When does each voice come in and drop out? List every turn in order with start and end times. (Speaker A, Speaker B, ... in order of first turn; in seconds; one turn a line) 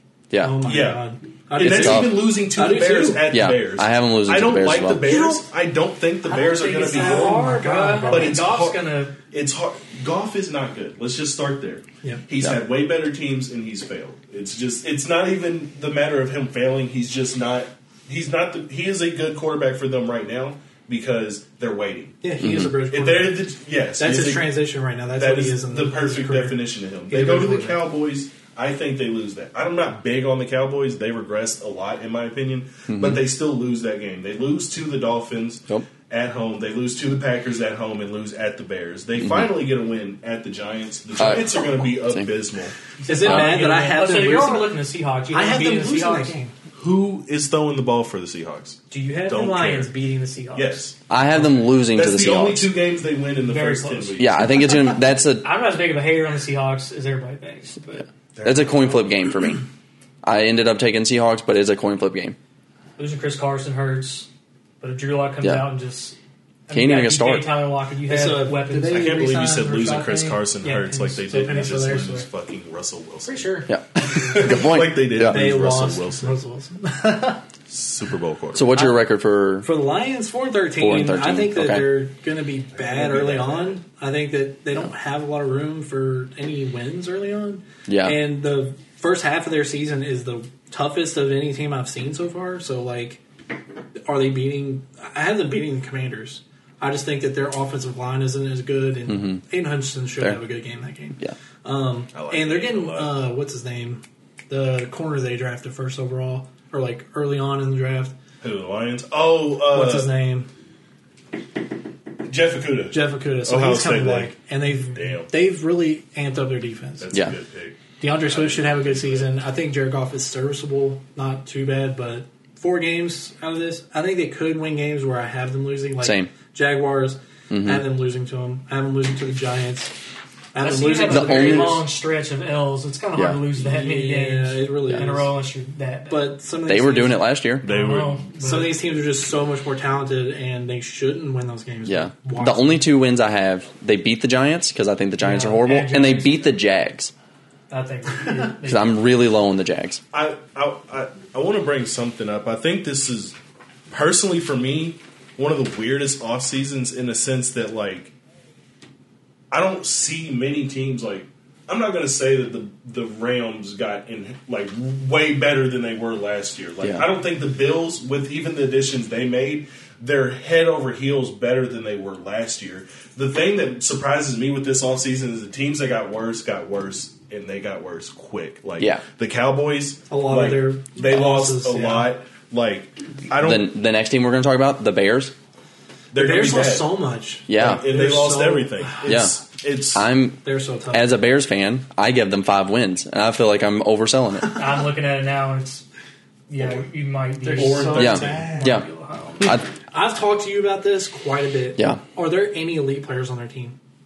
Speaker A: 0.3-0.6
Speaker B: 0.4-3.3
Speaker C: 0.6-22.2
Speaker A: 1.6-2.3
Speaker A: 3.3-5.2
Speaker B: 5.1-5.4
Speaker D: 6.2-9.2
Speaker B: 6.7-8.4
Speaker B: 22.2-23.4
Speaker A: 22.4-22.7
Speaker C: 22.9-24.5
Speaker B: 24.0-27.8
Speaker C: 25.1-42.8
Speaker A: 32.9-33.2
Speaker A: 39.2-39.5
Speaker A: 41.2-42.3
Speaker D: 43.0-46.3
Speaker B: 43.1-44.7
Speaker A: 43.2-43.6
Speaker B: 45.3-46.5
Speaker C: 46.8-49.9
Speaker D: 48.9-50.8
Speaker C: 50.5-54.6
Speaker A: 51.1-52.7
Speaker D: 53.4-54.3
Speaker A: 54.2-55.5
Speaker D: 55.4-58.0
Speaker C: 58.4-59.1
Speaker A: 58.4-59.6
Speaker A: 60.2-62.4
Speaker D: 63.0-64.3
Speaker D: 64.8-66.2
Speaker D: 66.7-69.1
Speaker A: 66.7-67.5
Speaker B: 68.1-72.3
Speaker C: 68.9-76.3
Speaker D: 70.6-71.1
Speaker D: 73.3-73.7
Speaker A: 73.7-75.5
Speaker B: 75.2-77.4
Speaker C: 77.7-78.8
Speaker A: 78.5-79.7
Speaker B: 79.6-93.2
Speaker A: 80.8-81.9
Speaker C: 82.7-83.8
Speaker A: 87.9-88.2
Speaker B: 94.0-108.1
Speaker A: 99.1-99.4
Speaker C: 102.1-103.3
Speaker C: 108.4-110.1
Speaker B: 109.7-110.5
Speaker C: 112.3-114.3
Speaker B: 112.9-117.1
Speaker C: 114.9-115.3
Speaker C: 117.0-119.3
Speaker B: 118.0-129.9
Speaker A: 126.0-126.3
Speaker A: 127.5-127.8
Speaker B: 130.5-131.8
Speaker D: 130.6-136.4
Speaker A: 131.1-131.8
Speaker A: 133.1-133.4
Speaker B: 133.5-135.3
Speaker B: 136.1-137.2
Speaker A: 136.6-137.7
Speaker C: 137.6-138.2
Speaker D: 137.6-138.8
Speaker B: 138.4-142.9
Speaker A: 141.9-147.1
Speaker D: 145.2-146.5
Speaker D: 147.7-149.0
Speaker A: 148.7-150.0
Speaker C: 150.1-153.4
Speaker C: 153.9-158.1
Speaker C: 159.5-183.7
Speaker B: 180.1-182.1
Speaker A: 183.4-185.3
Speaker C: 186.1-190.1
Speaker B: 186.2-189.3
Speaker A: 187.5-187.9
Speaker A: 189.1-189.4
Speaker A: 189.9-194.6
Speaker B: 190.4-191.2
Speaker D: 194.5-195.8
Speaker D: 196.5-199.4
Speaker C: 196.6-196.8
Speaker B: 197.4-198.9
Speaker C: 197.5-198.7
Speaker A: 198.0-198.9
Speaker A: 199.4-199.7
Speaker B: 199.4-203.8